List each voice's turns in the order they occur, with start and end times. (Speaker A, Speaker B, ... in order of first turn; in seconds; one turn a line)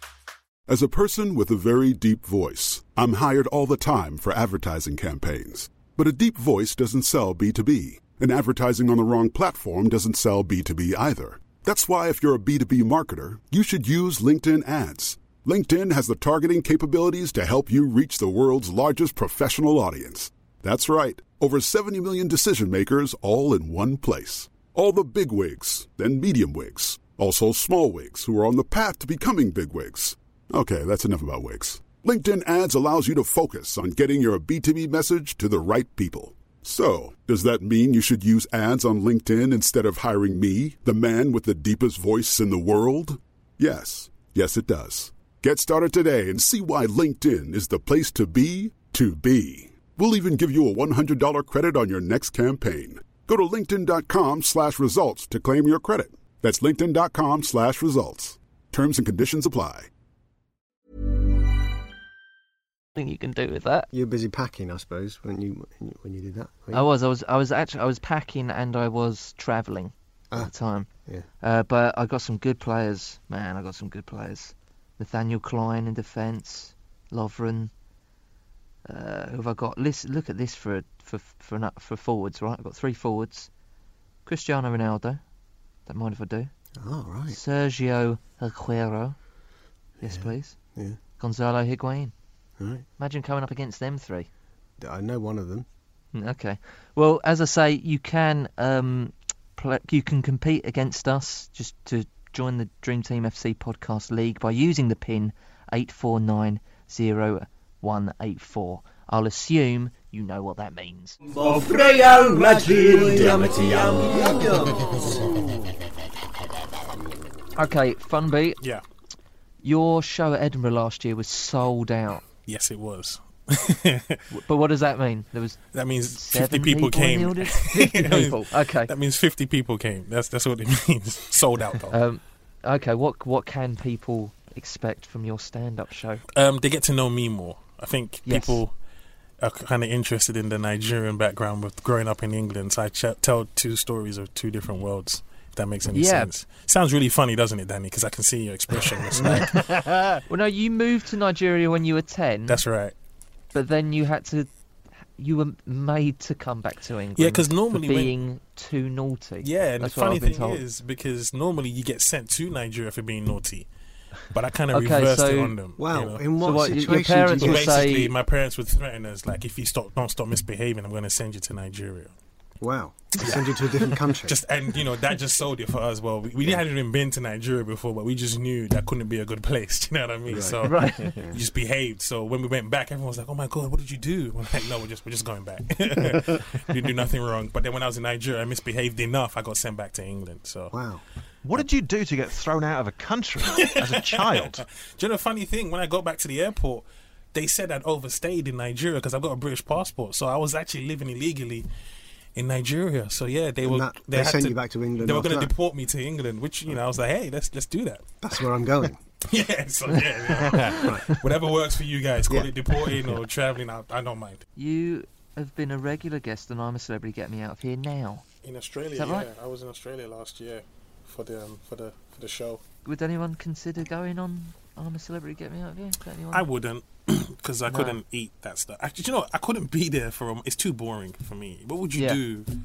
Speaker A: 0.7-59.9
Speaker B: 62.9-63.9
Speaker C: 63.9-66.8
Speaker B: 66.7-70.9
Speaker B: 71.4-77.7
Speaker B: 78.8-83.5
Speaker B: 84.2-85.2
Speaker B: 85.8-86.5
Speaker C: 86.8-87.4
Speaker B: 87.3-89.2
Speaker B: 90.0-90.5
Speaker C: 90.0-91.0
Speaker B: 91.2-92.1
Speaker C: 92.6-92.8
Speaker B: 93.0-94.3
Speaker C: 94.8-95.7
Speaker B: 96.1-111.2
Speaker D: 111.2-115.2
Speaker B: 117.5-118.6
Speaker B: 119.6-122.2
Speaker E: 122.5-124.2
Speaker B: 124.3-128.9
Speaker E: 125.7-131.9
Speaker B: 131.9-136.2
Speaker E: 136.3-138.7
Speaker B: 138.2-138.6
Speaker E: 139.4-149.7
Speaker B: 145.9-146.3
Speaker F: 149.2-150.2
Speaker B: 150.3-152.6
Speaker E: 152.5-152.9
Speaker B: 153.5-154.5
Speaker B: 155.2-160.6
Speaker E: 157.2-158.1
Speaker E: 159.4-163.7
Speaker E: 164.3-172.1
Speaker B: 164.7-165.5
Speaker C: 165.8-167.8
Speaker B: 166.4-168.1
Speaker C: 172.6-174.4
Speaker E: 173.2-190.7
Speaker C: 180.3-180.6
Speaker B: 180.6-181.1
Speaker C: 190.7-191.0
Speaker F: 191.4-194.6
Speaker E: 193.4-201.7
Speaker E: 202.3-208.1
Speaker C: 203.6-205.5
Speaker C: 208.2-209.0
Speaker E: 209.2-214.4
Speaker B: 214.6-218.2
Speaker E: 218.4-222.6
Speaker B: 218.9-219.3
Speaker B: 222.8-226.4
Speaker E: 226.3-232.5
Speaker B: 227.7-228.0
Speaker B: 231.9-232.2